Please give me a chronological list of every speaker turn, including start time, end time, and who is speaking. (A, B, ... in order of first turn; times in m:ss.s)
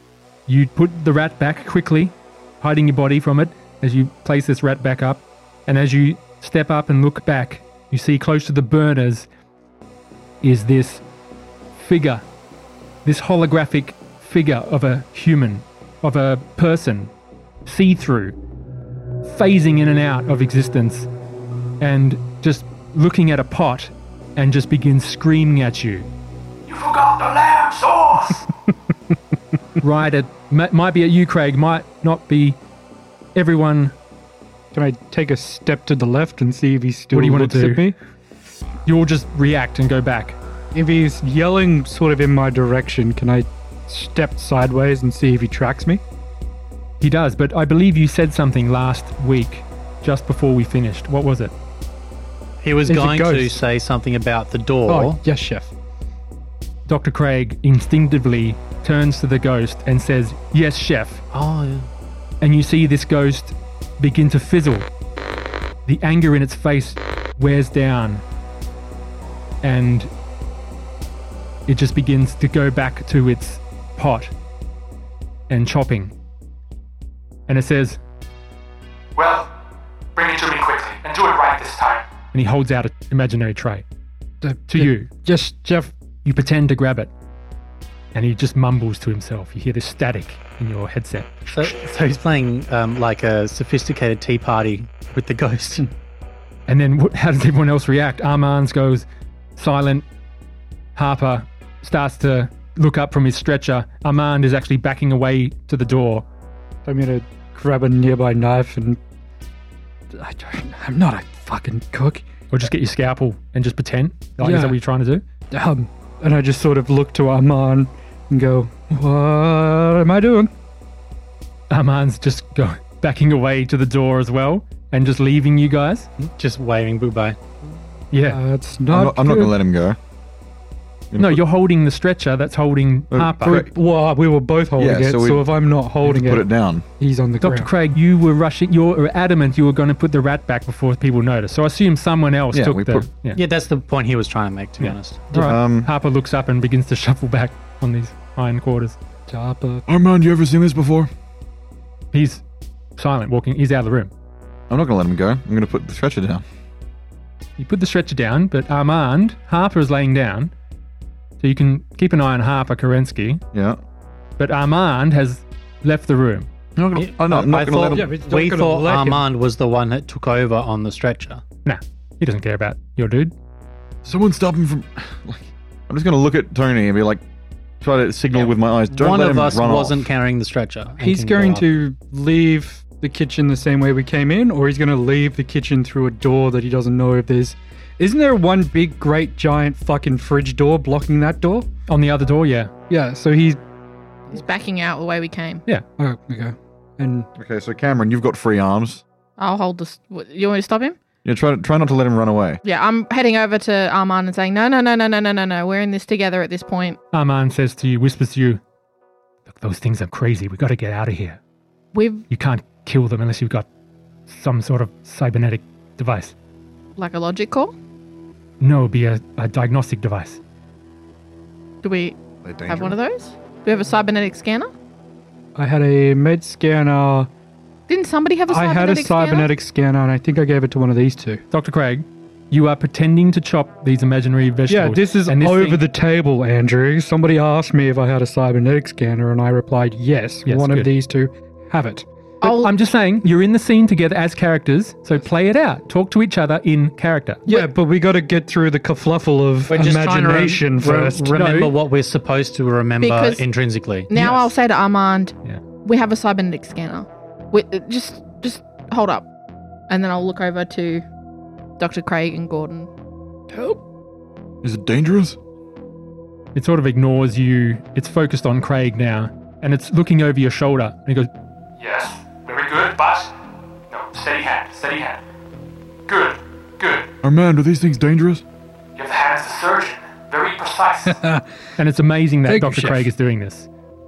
0:00.5-0:09.3 A
0:10.4-0:11.0 A
0:11.8-0:12.2 A
0:13.0-0:17.1 A
0:17.6-0:18.4 A
0:19.2-0:21.1 A
0:21.8-0:26.1 A
0:26.7-0:28.4 B
0:29.8-0:32.6 A
0:33.3-0:33.9 A
0:34.7-0:38.0 C
0:37.1-0:37.8 A
0:38.8-0:40.4 A
0:40.7-0:46.0 C
0:47.0-0:51.5 A
0:52.6-0:55.2 D
0:52.9-0:53.6 C
0:54.9-0:55.7 C
0:56.9-1:01.2 A
1:01.3-1:01.9 D
1:02.4-1:04.9 A
1:05.9-1:08.2 A
1:09.6-1:10.1 A
1:11.7-1:14.3 A
1:15.5-1:16.1 A
1:17.5-1:18.0 A
1:19.2-1:19.5 B
1:20.2-1:22.0 B
1:20.2-1:21.6 A
1:22.3-1:23.8 A
1:24.4-1:25.9 C
1:24.7-1:25.1 A
1:26.2-1:27.1 A
1:28.1-1:31.6 A
1:31.5-1:35.9 D
1:36.7-1:39.0 A
1:39.6-1:40.0 A
1:41.0-1:46.2 A
1:46.8-1:49.0 C
1:50.1-1:52.2 C
1:52.5-1:55.2 A
1:54.4-1:54.8 C
1:55.5-2:00.5 C
2:01.7-2:06.1 A
2:06.2-2:07.4 D
2:08.1-2:08.4 A
2:08.2-2:09.6 C
2:08.9-2:10.0 E
2:11.1-2:11.4 E
2:11.1-2:13.6 A
2:13.1-2:13.7 E
2:13.4-2:16.5 C
2:14.8-2:15.5 E
2:16.0-2:16.8 E
2:17.0-2:17.7 C
2:17.4-2:23.4 A
2:22.5-2:23.1 E
2:23.3-2:25.2 D
2:25.3-2:29.0 A
2:25.3-2:25.9 E
2:29.3-2:29.8 C
2:29.9-2:31.1 E
2:32.1-2:32.4 A
2:33.0-2:34.1 A
2:34.7-2:36.4 E
2:37.6-2:40.5 A
2:41.4-2:43.4 A
2:43.5-2:43.8 E
2:44.4-2:46.5 A
2:46.8-2:48.1 E
2:46.9-2:51.4 D
2:47.9-2:49.2 C
2:51.6-2:53.3 A
2:54.0-2:57.2 E
2:57.8-3:00.0 E
2:58.3-3:01.6 D
3:01.0-3:11.7 C
3:11.9-3:12.7 A
3:12.9-3:13.6 C
3:14.3-3:15.6 F
3:16.0-3:17.3 C
3:17.4-3:19.0 E
3:19.4-3:21.0 F
3:21.2-3:22.6 E
3:22.6-3:27.0 F
3:27.1-3:28.6 A
3:29.5-3:31.4 A
3:31.9-3:32.2 F
3:32.3-3:33.6 A
3:34.3-3:36.3 A
3:37.0-3:37.7 F
3:38.6-3:40.4 A
3:41.8-3:44.7 F
3:42.4-3:43.0 E
3:45.6-3:47.3 C
3:47.9-3:49.5 F
3:48.5-3:51.4 C
3:51.5-3:55.8 A
3:54.7-4:02.0 C
4:00.5-4:00.9 A
4:02.4-4:02.7 F
4:02.4-4:07.4 A
4:07.5-4:11.3 C
4:09.7-4:14.1 D
4:11.4-4:11.7 A
4:13.0-4:13.4 F
4:14.1-4:19.3 F
4:14.1-4:14.5 A
4:19.9-4:21.0 F
4:21.8-4:22.9 F
4:24.6-4:25.4 E
4:26.5-4:31.3 A
4:31.8-4:33.3 B
4:31.8-4:32.6 A
4:33.9-4:35.2 A
4:34.0-4:35.2 B
4:36.1-4:37.0 A
4:36.1-4:37.0 B
4:37.2-4:38.4 E
4:39.0-4:41.1 B
4:40.8-4:41.1 A
4:41.0-4:41.5 C
4:41.8-4:43.7 A
4:42.5-4:43.1 C